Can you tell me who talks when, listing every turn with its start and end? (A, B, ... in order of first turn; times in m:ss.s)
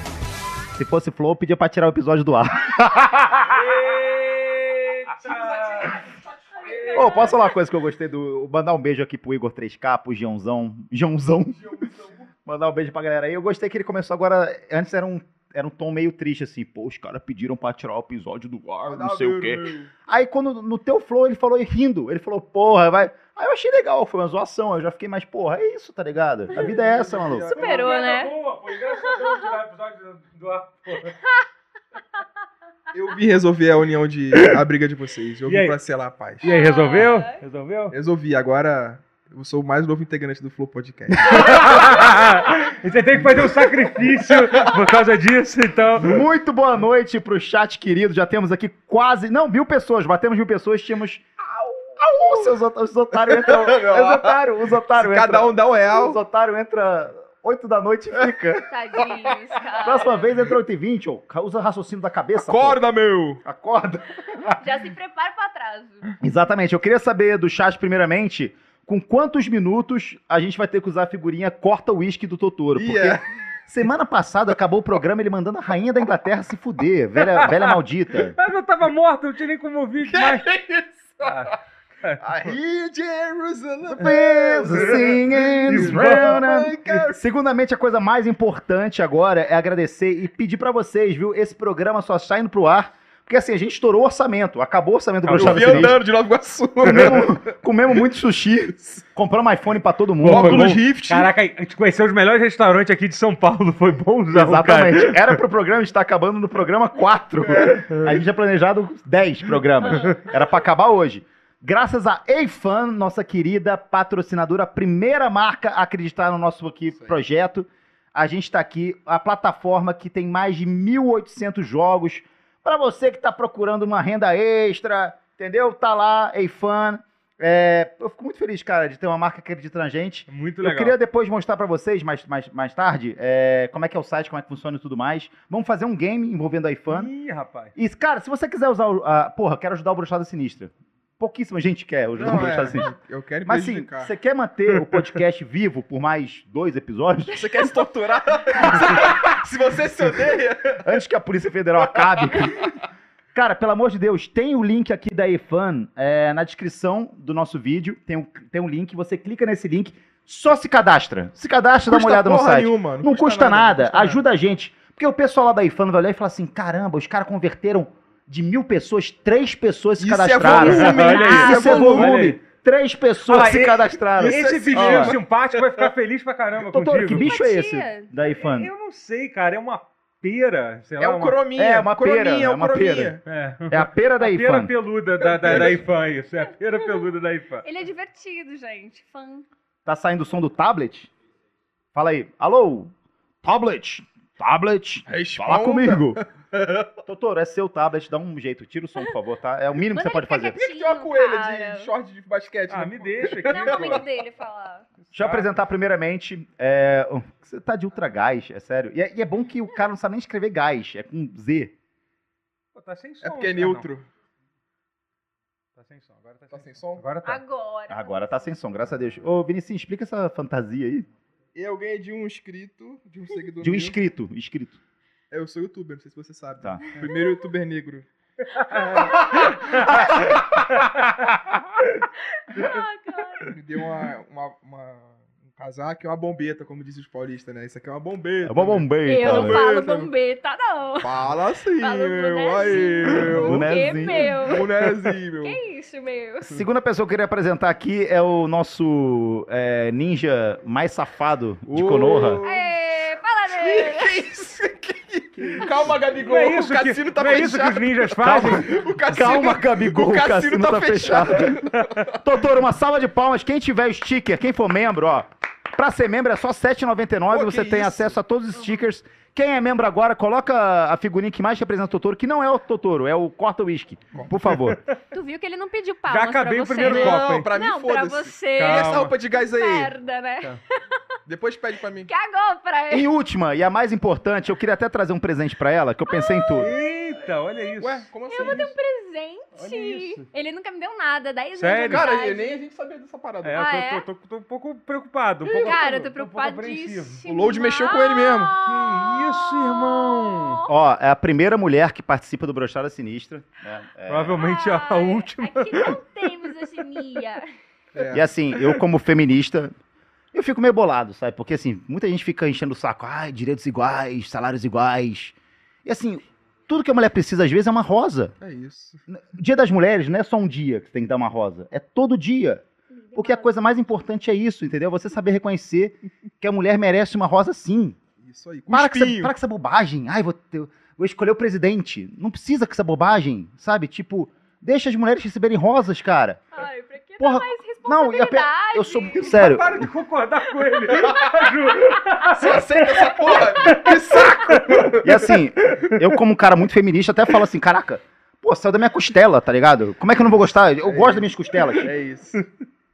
0:00.8-0:03.8 A
0:03.5-0:06.0 B
0:05.3-0:05.9 C
0:06.6-0:07.0 C
0:06.6-0:07.4 D
0:06.7-0:07.3 B
0:06.9-0:11.8 A
0:11.6-0:12.2 C
0:12.5-0:27.6 A
0:18.9-0:19.9 C
0:26.5-0:27.9 C
0:27.6-0:28.3 D
0:27.6-0:31.2 B
0:29.0-0:29.5 D
0:32.9-0:36.5 C
0:34.3-0:34.6 B
0:35.5-0:35.8 B
0:36.4-0:38.0 B
0:36.4-0:37.4 D
0:37.9-0:42.2 C
0:41.2-0:46.2 B
0:46.0-0:58.7 A
0:53.2-0:54.4 C
0:54.9-0:56.2 C
0:58.7-1:00.2 D
0:59.8-1:02.8 A
1:02.4-1:03.4 C
1:03.4-1:04.6 A
1:04.6-1:06.1 D
1:06.2-1:18.4 A
1:12.7-1:13.2 C
1:17.2-1:20.5 B
1:20.0-1:21.5 C
1:21.2-1:22.5 B
1:22.2-1:27.2 C
1:23.9-1:36.0 A
1:24.7-1:25.0 B
1:25.7-1:27.0 B
1:35.2-1:36.0 B
1:35.3-1:37.4 C
1:36.8-1:40.8 A
1:36.8-1:37.2 B
1:40.2-1:45.4 B
1:40.2-1:41.3 C
1:44.3-2:17.1 A
1:47.6-1:48.2 B
1:49.8-1:50.3 D
2:10.3-2:11.0 B
2:16.9-2:17.7 B
2:17.8-2:22.9 A
2:22.2-2:24.1 C
2:23.4-2:27.8 A
2:27.3-2:31.0 C
2:28.6-2:29.2 A
2:30.8-2:32.8 A
2:31.8-2:32.6 C
2:33.3-2:55.2 A
2:41.9-2:44.2 C
2:50.0-2:52.3 C
2:50.4-2:52.4 B
2:50.9-2:52.0 D
2:53.3-2:57.4 B
2:54.2-2:55.6 C
2:56.6-2:58.7 A
2:57.2-2:58.1 D
2:58.3-3:01.4 B
3:01.0-3:03.2 C
3:01.6-3:03.2 A
3:03.2-3:07.6 B
3:03.7-3:04.7 A
3:05.2-3:05.8 C
3:06.7-3:07.1 D
3:07.6-3:09.5 D
3:09.9-3:11.1 A
3:11.9-3:12.9 A
3:13.4-3:16.2 A
3:15.1-3:16.9 C
3:17.0-3:20.6 A
3:19.9-3:21.9 D
3:20.5-3:24.0 C
3:22.7-3:24.1 B
3:23.5-3:24.8 D
3:25.1-3:25.6 B
3:25.1-3:31.7 A
3:32.8-3:33.9 B
3:33.2-3:34.1 C
3:35.8-3:37.4 B
3:36.5-3:37.0 C
3:37.2-3:38.4 D
3:37.9-3:41.1 A
3:41.6-3:44.0 C
3:43.6-3:44.8 A
3:45.3-3:48.1 C
3:48.5-3:50.1 B
3:48.7-3:49.8 D
3:49.4-3:51.3 A
3:50.7-3:51.0 B
3:52.3-3:53.5 D
3:53.5-4:00.1 C
3:58.5-3:59.6 A
3:59.1-4:01.1 D
4:01.0-4:05.6 C
4:01.8-4:04.7 D
4:03.3-4:04.3 A
4:05.4-4:06.6 D
4:06.4-4:12.4 A
4:11.7-4:12.7 C
4:12.4-4:14.2 D
4:13.5-4:22.2 C
4:16.1-4:18.8 B
4:18.2-4:34.8 A
4:27.3-4:28.1 C
4:34.1-4:34.6 C
4:35.1-4:40.6 D
4:36.1-4:37.5 B
4:36.8-4:40.0 C
4:38.6-4:39.2 B
4:41.3-4:42.1 C
4:42.1-4:43.1 D
4:42.9-4:46.7 A
4:46.1-4:46.8 D
4:46.6-4:48.7 B
4:47.8-4:48.7 C
4:48.3-4:52.6 D
4:49.6-4:50.2 B
4:51.6-4:52.1 B
4:51.9-4:53.6 C
4:53.4-4:57.2 B
4:53.6-4:54.1 D
4:55.4-5:00.8 D
4:57.2-4:58.6 C
4:58.6-5:00.6 B
5:00.7-5:04.4 A
5:04.1-5:06.0 B
5:04.3-5:07.5 D
5:07.9-5:08.3 C
5:08.1-5:09.8 A
5:08.6-5:08.8 B
5:10.3-5:18.3 A
5:18.4-5:19.0 C
5:19.1-5:22.6 A
5:22.9-5:23.5 D
5:23.2-5:28.0 A
5:28.2-5:29.3 C
5:28.7-5:36.4 A
5:36.5-5:39.4 D
5:37.2-5:39.9 A
5:39.2-5:45.0 B
5:40.6-5:42.0 D
5:42.3-5:45.3 C
5:45.0-5:51.9 A
5:45.6-5:46.1 B
5:50.8-5:52.4 C